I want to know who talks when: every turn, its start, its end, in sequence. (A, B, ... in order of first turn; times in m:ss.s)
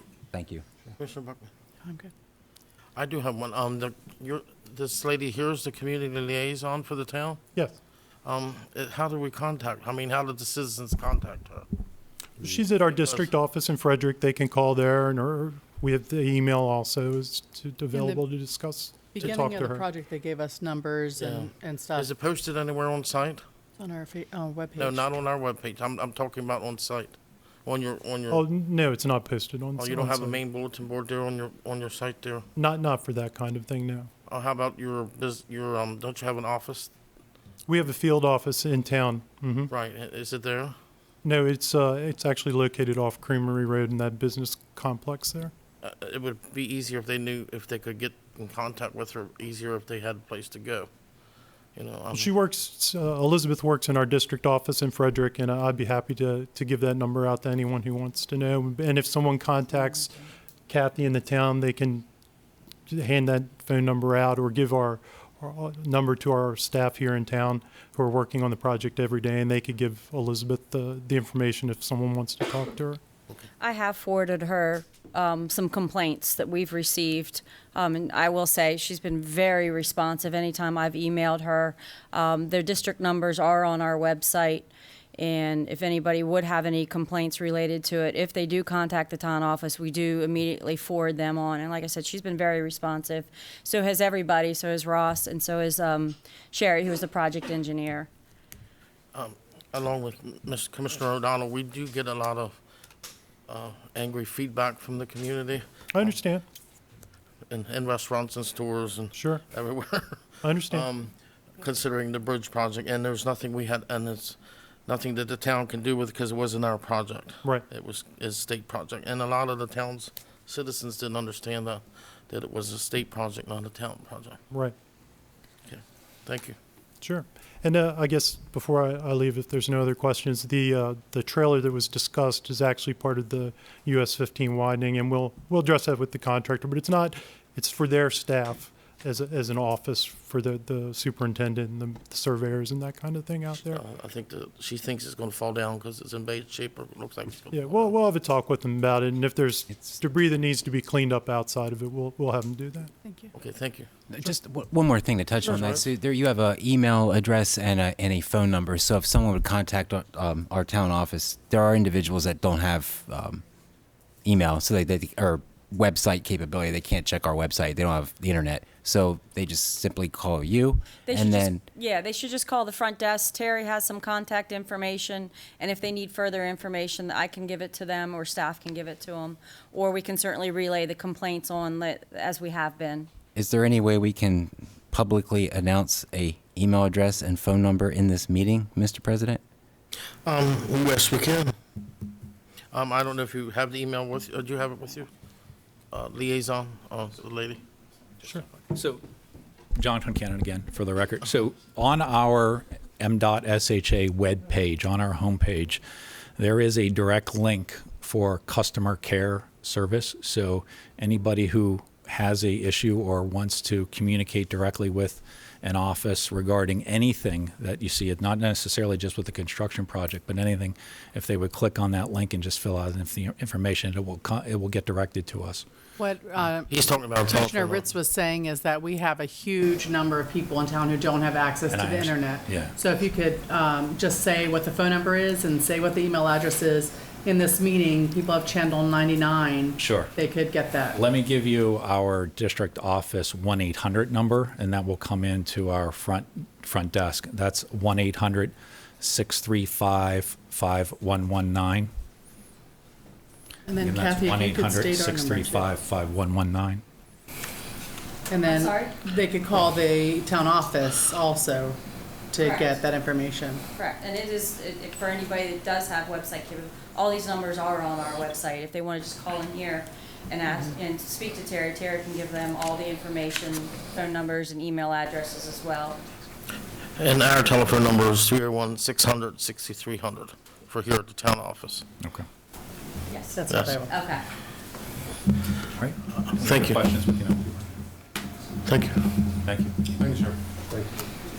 0:00.3-0:00.6 A
0:01.0-0:01.5 B
0:01.8-0:02.1 C
0:03.0-0:07.4 B
0:08.2-0:11.7 B
0:12.4-0:19.8 D
0:12.5-0:13.3 B
0:17.9-0:18.2 C
0:19.1-0:22.1 C
0:21.2-0:23.4 B
0:23.8-0:25.1 C
0:24.8-0:28.5 B
0:28.3-0:30.4 D
0:29.8-0:32.4 B
0:32.6-0:34.1 D
0:34.3-0:36.9 B
0:37.7-0:39.7 D
0:39.7-0:40.8 B
0:41.2-0:45.5 D
0:45.8-0:50.9 B
0:51.7-0:52.4 B
0:52.1-1:00.1 D
1:00.7-1:02.0 D
1:02.9-1:13.0 D
1:13.6-1:38.1 E
1:39.1-1:42.6 B
1:43.5-1:46.0 B
1:45.9-1:46.4 D
1:47.5-2:04.4 B
1:49.1-1:49.4 D
1:50.4-1:50.9 D
2:05.7-2:06.6 B
2:07.0-2:23.8 D
2:23.6-2:28.0 B
2:27.5-2:32.9 D
2:29.7-2:30.0 A
2:33.0-2:33.3 C
2:33.3-2:33.9 B
2:34.1-2:43.4 A
2:35.4-2:35.8 B
2:44.2-2:51.6 A
2:51.0-3:03.1 E
3:03.3-3:09.4 A
3:10.2-3:11.5 B
3:12.7-3:15.1 B
3:15.9-3:17.6 B
3:18.7-3:19.0 F
3:19.8-3:25.8 F
3:26.4-3:45.6 F
3:46.0-3:46.7 C
3:46.7-3:47.9 B
3:47.2-4:01.0 C
3:51.7-3:52.8 F
3:59.8-4:00.1 F
4:00.9-4:11.9 F
4:13.6-4:15.7 C
4:13.8-4:16.8 F
4:18.3-4:21.8 C
4:18.4-4:19.0 E
4:22.3-4:23.6 C
4:22.4-4:22.8 E
4:23.7-4:36.0 E
4:37.0-4:41.9 B
4:43.1-4:44.2 E
4:43.3-4:43.9 C
4:43.5-4:43.8 B
4:45.7-4:47.7 F
4:46.4-4:46.8 B
4:48.6-4:49.2 B
4:49.4-4:50.4 F